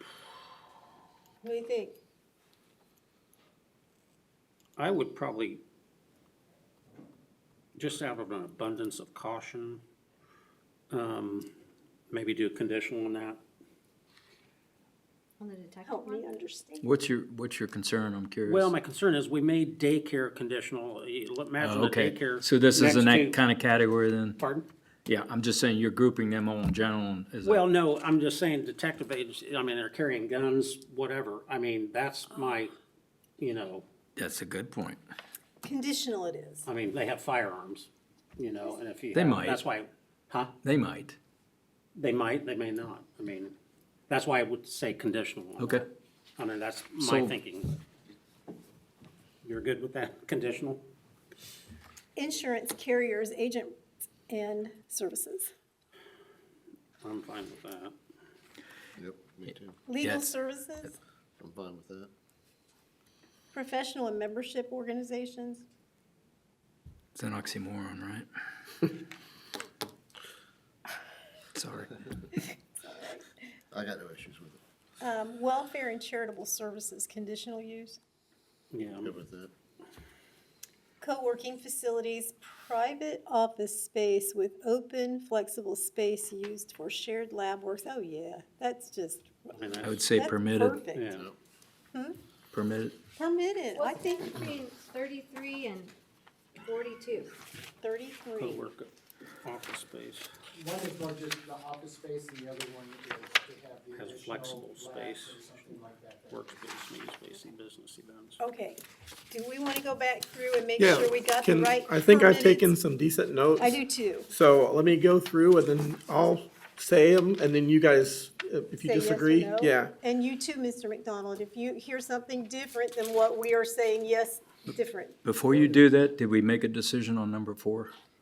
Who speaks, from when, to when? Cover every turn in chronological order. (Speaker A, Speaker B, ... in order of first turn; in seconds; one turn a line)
Speaker A: 1.4-2.0
Speaker B: 4.8-5.6
Speaker B: 7.8-9.8
Speaker B: 10.9-11.5
Speaker B: 12.1-13.4
Speaker C: 15.4-16.4
Speaker A: 15.8-16.9
Speaker D: 16.8-18.7
Speaker B: 18.4-23.4
Speaker D: 21.6-24.4
Speaker B: 24.4-24.7
Speaker D: 25.1-27.6
Speaker B: 27.4-32.7
Speaker B: 33.4-33.9
Speaker D: 34.1-35.0
Speaker A: 35.6-36.7
Speaker B: 36.6-40.5
Speaker D: 39.1-39.6
Speaker D: 40.6-41.2
Speaker B: 41.9-43.5
Speaker B: 44.1-45.8
Speaker D: 45.6-45.8
Speaker B: 46.4-47.8
Speaker D: 47.0-47.4
Speaker B: 49.4-50.8
Speaker A: 52.1-53.8
Speaker A: 54.3-55.5
Speaker B: 57.0-57.9
Speaker E: 59.0-59.8
Speaker A: 59.9-60.9
Speaker D: 60.0-60.3
Speaker E: 61.4-62.1
Speaker A: 63.5-65.6
Speaker D: 67.1-68.3
Speaker D: 71.5-71.9
Speaker A: 72.5-73.2
Speaker E: 73.7-74.6
Speaker A: 75.0-78.0
Speaker B: 78.7-79.1
Speaker E: 79.0-79.5
Speaker A: 81.0-91.0
Speaker B: 89.6-90.0
Speaker D: 89.8-90.8
Speaker B: 90.9-91.3
Speaker D: 92.5-93.0
Speaker A: 93.2-94.3
Speaker C: 93.7-95.9
Speaker C: 96.6-97.3
Speaker A: 97.8-98.6
Speaker B: 98.4-98.9
Speaker B: 99.4-100.3
Speaker F: 100.5-106.6
Speaker B: 103.9-105.8
Speaker B: 106.3-108.4
Speaker A: 108.4-112.8
Speaker G: 110.8-119.9
Speaker A: 113.6-114.3
Speaker A: 118.8-125.7
Speaker D: 125.2-127.9